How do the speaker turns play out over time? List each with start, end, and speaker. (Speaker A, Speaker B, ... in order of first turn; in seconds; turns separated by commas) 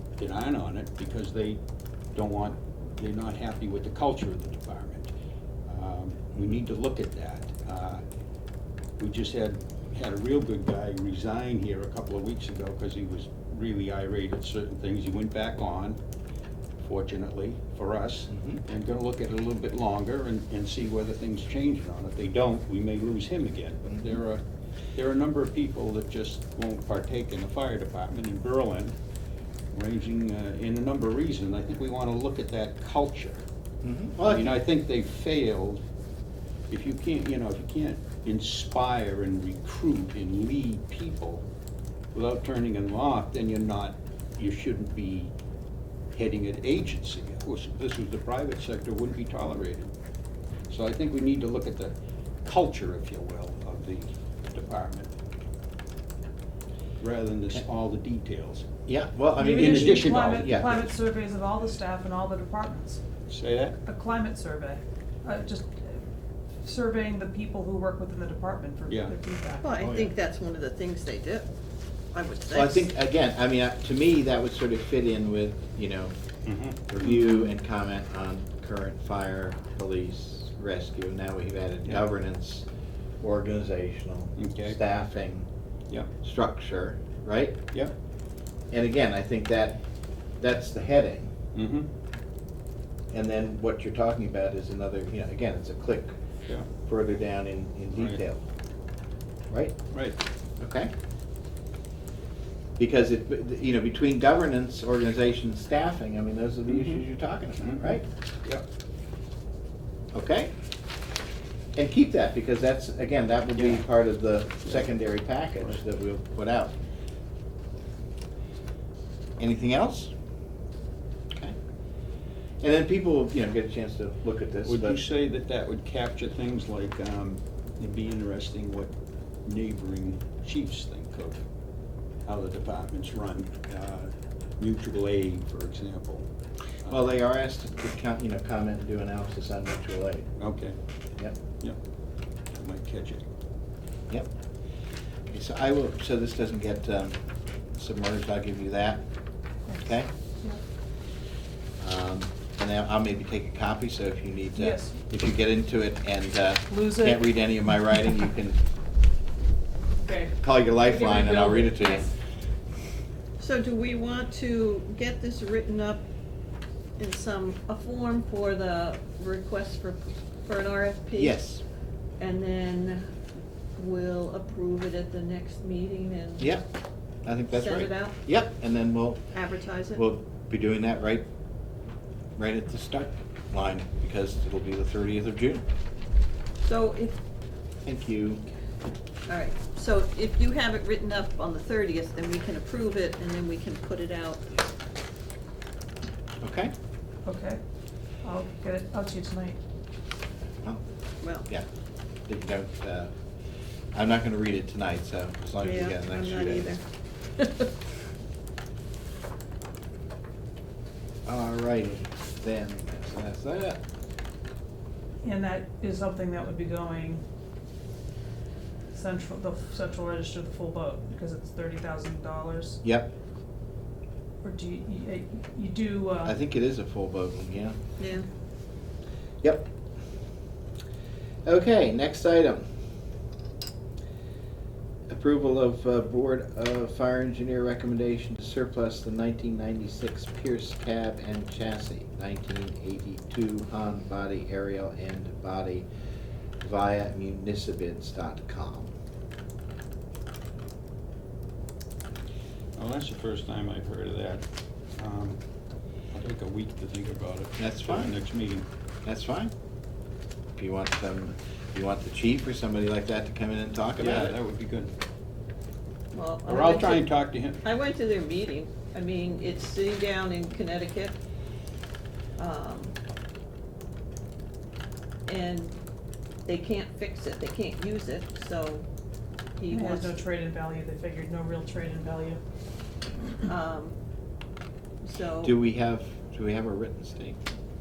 Speaker A: 0.2-1.6, Speaker A: 2.1-5.1, Speaker A: 5.7-8.0, Speaker A: 9.0-16.0, Speaker A: 16.8-24.4, Speaker B: 18.3-18.6, Speaker A: 24.9-28.9, Speaker A: 29.7-33.4, Speaker B: 33.8-34.6, Speaker A: 34.2-35.8, Speaker A: 36.7-41.4, Speaker A: 42.1-45.3, Speaker A: 46.1-49.9, Speaker A: 50.7-55.1, Speaker A: 57.0-58.7, Speaker B: 58.9-60.9, Speaker C: 59.4-63.0, Speaker A: 59.5-60.7, Speaker A: 63.3-63.8, Speaker C: 63.8-66.0, Speaker C: 66.6-69.7, Speaker A: 68.9-69.1, Speaker D: 69.6-71.5, Speaker A: 69.8-70.1, Speaker D: 72.1-72.9, Speaker B: 72.5-76.1, Speaker A: 76.4-77.1, Speaker B: 76.9-82.7, Speaker B: 83.2-85.5, Speaker A: 84.4-84.8, Speaker B: 86.2-87.6, Speaker B: 88.7-89.8, Speaker B: 90.4-91.3, Speaker A: 91.5-91.9, Speaker B: 93.1-96.1, Speaker B: 96.8-98.4, Speaker A: 97.9-98.2, Speaker B: 99.5-99.8, Speaker A: 99.9-100.2, Speaker B: 100.6-100.9, Speaker B: 102.8-108.0, Speaker A: 106.7-107.0, Speaker A: 107.6-107.9, Speaker B: 110.1-110.5, Speaker B: 111.8-116.7, Speaker A: 113.5-113.8, Speaker B: 119.4-120.1, Speaker B: 122.6-125.0, Speaker A: 124.7-128.9, Speaker A: 129.4-131.4, Speaker A: 132.2-136.2, Speaker B: 136.9-140.3, Speaker A: 140.4-140.8, Speaker A: 142.5-143.2, Speaker B: 145.3-147.2, Speaker B: 147.7-149.0, Speaker B: 149.7-150.1, Speaker B: 151.8-158.6, Speaker C: 154.6-155.0, Speaker C: 156.7-157.2, Speaker C: 160.0-162.1, Speaker B: 160.4-162.1, Speaker D: 163.4-166.0, Speaker D: 167.0-171.4, Speaker B: 171.2-171.6, Speaker D: 172.2-173.0, Speaker D: 173.8-176.6, Speaker B: 176.4-176.6, Speaker B: 177.2-179.3, Speaker D: 177.5-178.2, Speaker D: 179.3-180.0, Speaker B: 179.9-181.3, Speaker B: 182.4-185.6, Speaker D: 186.6-187.2, Speaker B: 187.8-188.4, Speaker D: 189.3-194.5, Speaker B: 196.4-196.7, Speaker C: 197.2-197.6, Speaker C: 198.2-199.6, Speaker D: 201.2-201.5, Speaker B: 202.3-203.1, Speaker B: 203.9-206.7, Speaker D: 205.6-206.8, Speaker D: 207.4-207.7, Speaker B: 211.2-213.8, Speaker C: 215.2-217.2, Speaker C: 218.9-222.8, Speaker B: 222.8-223.1, Speaker C: 224.4-226.3, Speaker B: 226.2-227.8, Speaker D: 228.0-228.2, Speaker B: 229.4-229.7, Speaker B: 231.4-232.6, Speaker B: 235.1-245.9, Speaker B: 246.6-248.9, Speaker A: 252.8-255.4, Speaker A: 256.1-258.6, Speaker B: 257.6-258.1, Speaker B: 259.0-259.5, Speaker B: 260.6-264.3, Speaker A: 264.0-264.9, Speaker D: 266.1-271.1, Speaker A: 266.5-267.6, Speaker D: 272.4-272.9, Speaker D: 275.2-275.7, Speaker D: 276.4-278.8, Speaker D: 279.6-280.1, Speaker C: 279.7-282.4, Speaker D: 283.4-283.9, Speaker D: 285.0-285.6, Speaker B: 285.4-287.4